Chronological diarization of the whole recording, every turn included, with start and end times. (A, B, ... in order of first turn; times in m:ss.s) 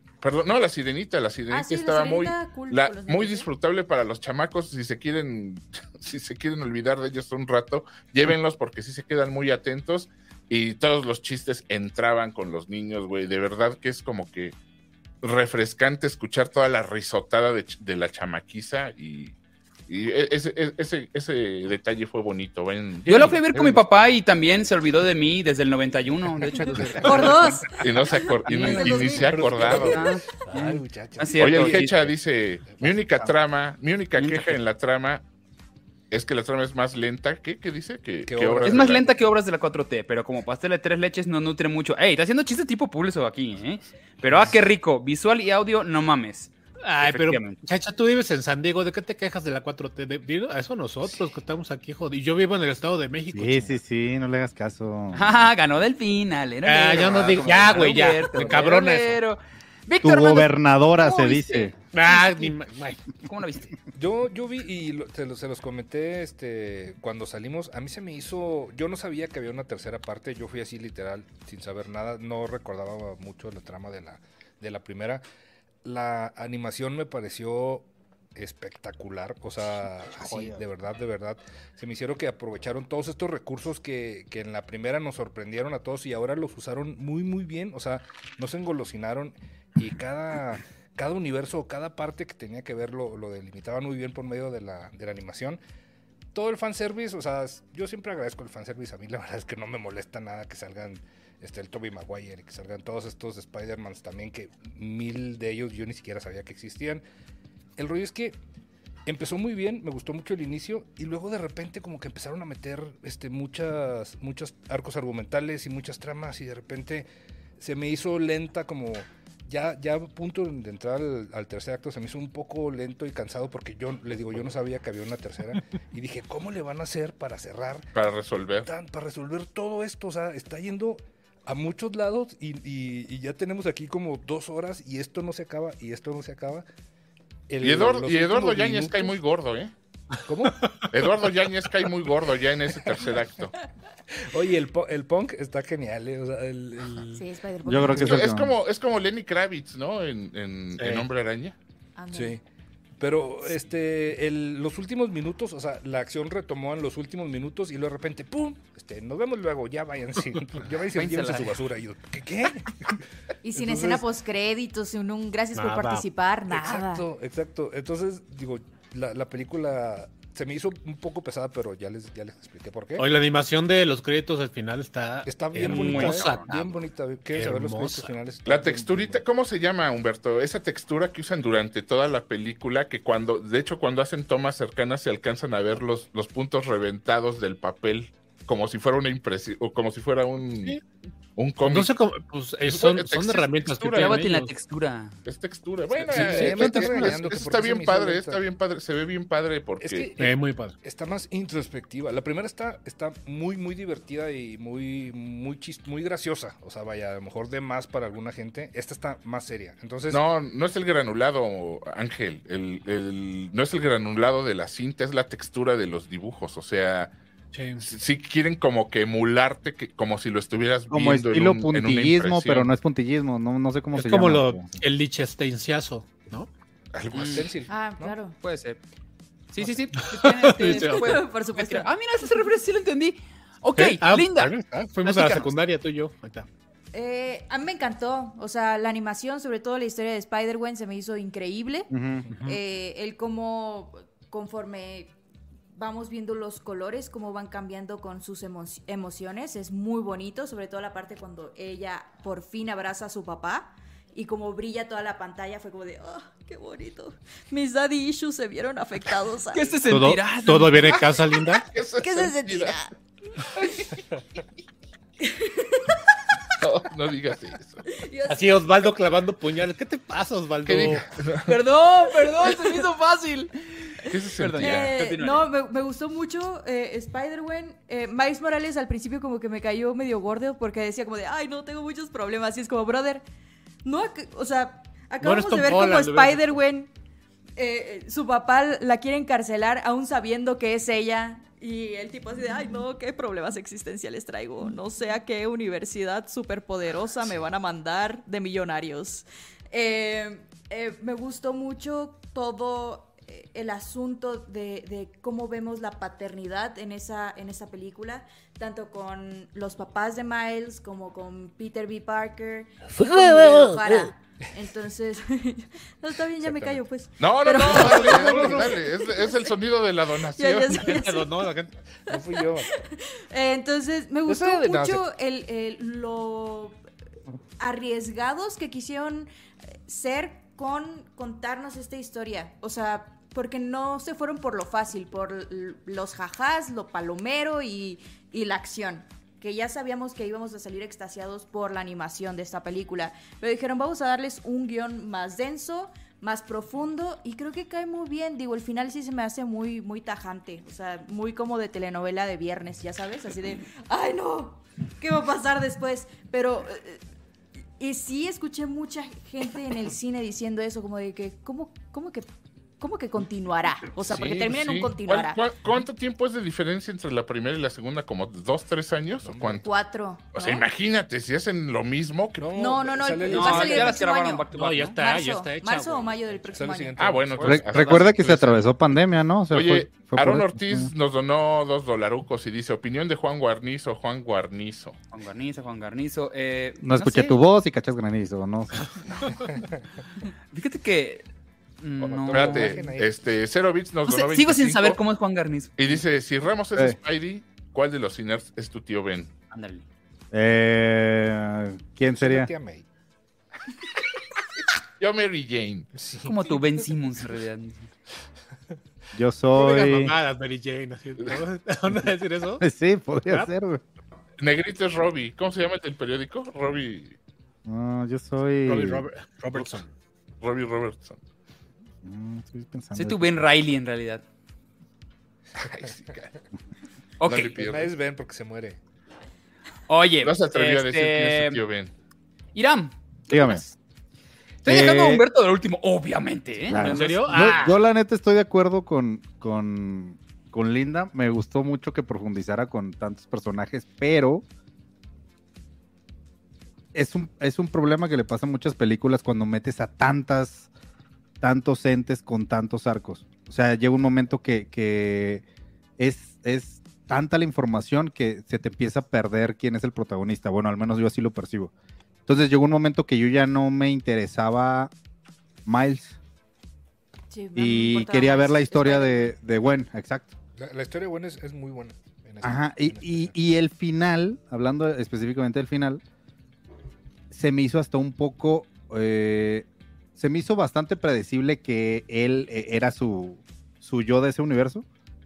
0:00.2-0:14.6 A
0:01.5-0:03.5 B
0:15.2-0:19.4 A
0:19.9-0:23.4 A
0:23.1-0:27.6 C
0:23.1-0:23.8 D
0:26.8-0:27.1 D
0:27.0-0:29.8 B
0:27.7-0:30.1 A
0:28.5-0:28.9 C
0:28.5-0:32.1 D
0:29.6-0:32.1 C
0:31.4-0:35.2 A
0:32.7-0:33.3 D
0:34.2-0:34.6 C
0:36.1-0:39.1 A
0:38.2-0:39.1 D
0:38.6-0:47.6 C
0:46.8-0:53.8 E
0:53.3-0:55.4 F
0:55.1-1:02.5 C
0:56.6-0:59.2 E
1:00.0-1:01.7 F
1:01.9-1:03.0 E
1:03.2-1:03.7 C
1:03.9-1:15.2 D
1:15.8-1:35.6 D
1:20.2-1:20.6 F
1:36.3-1:47.0 D
1:47.8-1:48.4 D
1:49.1-1:57.1 D
1:57.6-2:07.9 D
2:07.9-2:08.7 A
2:08.6-2:16.6 D
2:17.5-2:19.1 D
2:17.6-2:19.7 A
2:20.3-2:20.6 D
2:20.9-2:23.5 A
2:24.3-2:27.2 D
2:27.1-2:28.2 B
2:27.6-2:28.5 F
2:28.0-2:31.6 A
2:30.8-2:31.1 E
2:32.0-2:32.4 B
2:32.1-2:32.4 D
2:33.0-2:43.0 D
2:40.9-2:41.6 C
2:43.4-2:47.0 B
2:43.5-2:44.0 D
2:45.6-2:46.0 E
2:46.5-2:53.1 D
2:53.0-2:56.7 E
2:55.2-2:59.2 D
2:55.6-2:56.8 C
2:57.3-2:58.1 E
2:58.4-3:10.8 A
3:11.4-3:11.9 A
3:11.6-3:14.5 E
3:12.6-3:14.2 A
3:14.0-3:15.2 C
3:15.2-3:20.1 A
3:16.0-3:18.4 D
3:16.1-3:17.2 E
3:16.2-3:16.6 C
3:19.8-3:30.2 D
3:20.2-3:20.8 E
3:30.1-3:37.1 A
3:37.5-3:37.8 E
3:37.8-3:42.7 A
3:40.9-3:44.7 F
3:43.9-3:46.5 E
3:46.9-3:47.5 A
3:47.1-3:47.5 C
3:47.2-3:48.1 D
3:47.7-3:48.4 B
3:48.4-3:48.8 C
3:49.5-3:55.5 C
3:50.1-3:51.1 E
3:50.6-3:51.9 B
3:53.8-3:56.5 E
3:56.9-4:05.1 B
4:01.9-4:02.3 F
4:02.3-4:02.6 E
4:05.7-4:19.8 B
4:19.5-4:21.0 C
4:19.9-4:21.7 E
4:21.7-4:22.8 A
4:22.0-4:22.9 B
4:23.6-4:23.9 A
4:25.2-4:26.0 B
4:26.6-4:27.8 A
4:28.0-4:28.5 B
4:28.3-4:31.1 E
4:30.6-4:31.6 A
4:31.4-4:35.5 C
4:34.1-4:34.9 A
4:34.6-4:43.2 B
4:43.8-4:46.9 B
4:45.2-4:46.6 E
4:47.6-5:19.5 B
5:13.2-5:14.1 E
5:16.4-5:16.8 D
5:17.2-5:21.0 A
5:17.6-5:18.7 D
5:18.2-5:18.6 E
5:20.4-5:21.6 B
5:20.7-5:21.7 E
5:22.1-5:22.7 D
5:22.1-5:26.8 B
5:24.2-5:25.0 D
5:27.6-5:29.3 B
5:29.9-5:57.0 B
5:57.8-6:02.3 B
6:02.8-6:05.4 B
6:04.0-6:09.6 A
6:09.2-6:09.6 D
6:09.6-6:10.6 B
6:10.3-6:12.5 A
6:12.4-6:14.0 D
6:12.6-6:17.0 B
6:13.2-6:15.0 C
6:14.5-6:16.3 E
6:16.5-6:18.0 D
6:17.0-6:18.8 A
6:17.4-6:20.9 F
6:19.5-6:25.0 A
6:25.1-6:27.4 C
6:26.8-6:28.8 F
6:30.5-6:31.2 C
6:31.8-6:32.9 C
6:32.0-6:35.0 A
6:32.1-6:33.1 D
6:34.1-6:35.8 C
6:35.8-6:39.3 A
6:39.5-6:39.8 C
6:40.3-6:42.5 F
6:42.1-6:42.8 D
6:45.0-6:45.9 A
6:45.9-6:46.4 D
6:46.2-6:47.9 C
6:49.1-6:50.2 F
6:49.5-6:52.6 E
6:52.6-6:53.8 F
6:54.4-6:57.2 A
6:57.6-6:59.1 F
6:58.6-6:59.9 E
7:00.4-7:01.2 A
7:02.0-7:03.2 F
7:02.9-7:04.2 C
7:05.6-7:06.3 A
7:07.2-7:07.6 C
7:07.2-7:07.9 A
7:07.3-7:08.8 D
7:09.9-7:11.6 C
7:10.2-7:11.9 A
7:12.6-7:13.8 C
7:13.3-7:13.6 F
7:14.6-7:17.1 C
7:14.6-7:15.2 F
7:16.7-7:24.4 F
7:16.7-7:17.8 E
7:26.9-7:30.7 F
7:31.4-7:35.4 F
7:36.0-7:41.7 F
7:42.3-7:44.9 F
7:45.6-7:46.2 F
7:47.3-7:49.4 B
7:47.6-7:50.4 F
7:50.6-7:53.3 D
7:52.4-7:56.0 F
7:57.3-8:04.8 F